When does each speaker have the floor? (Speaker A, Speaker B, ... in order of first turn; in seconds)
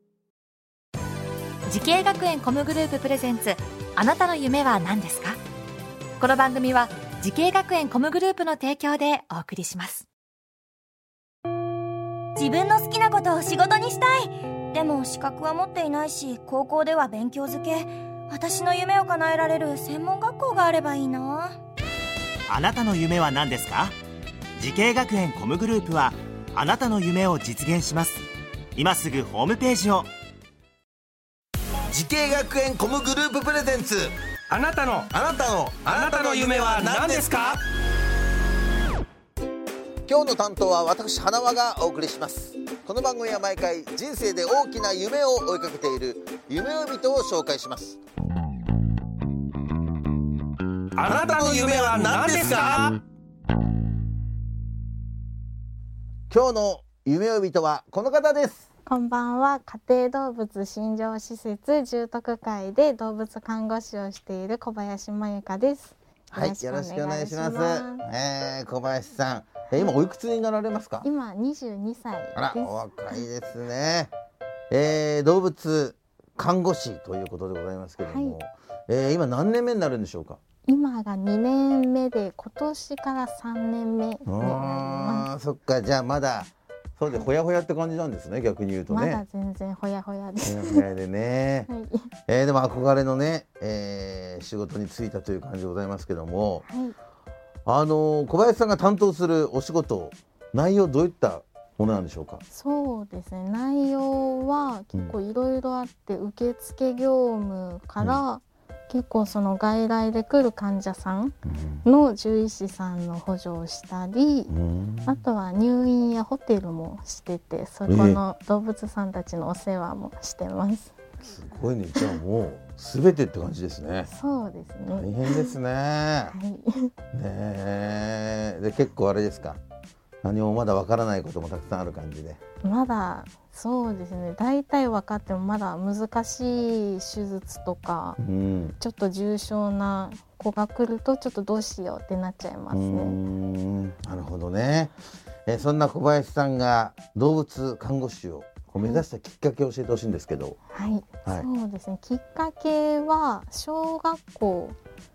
Speaker A: 1.7-5.4, 6.2-10.1
Speaker B: 12.4-21.6
Speaker C: 22.5-24.0, 24.6-30.1
Speaker D: 31.9-34.1, 35.1-37.4, 40.1-48.0, 51.0-52.9, 56.3-58.6, 66.3-71.1, 72.4-74.1, 74.7-80.4, 84.3-89.2, 90.5-91.7, 92.3-96.7, 97.7-102.4, 111.5-111.9, 114.5-115.2, 117.9-118.2, 121.2-124.1, 124.9-126.3, 127.1-129.6, 130.2-132.4, 138.2-138.8, 142.7-144.9, 145.5-150.6
Speaker E: 34.5-35.1, 35.8-37.6, 51.0-53.0
Speaker F: 58.9-68.0, 69.7-70.0, 71.0-72.7, 78.0-78.4, 80.7-85.3, 88.9-90.8, 91.7-92.1, 96.6-97.0, 102.5-114.5, 115.1-120.9, 124.1-125.5, 126.3-126.9, 132.6-138.2, 138.8-143.2, 150.7-154.8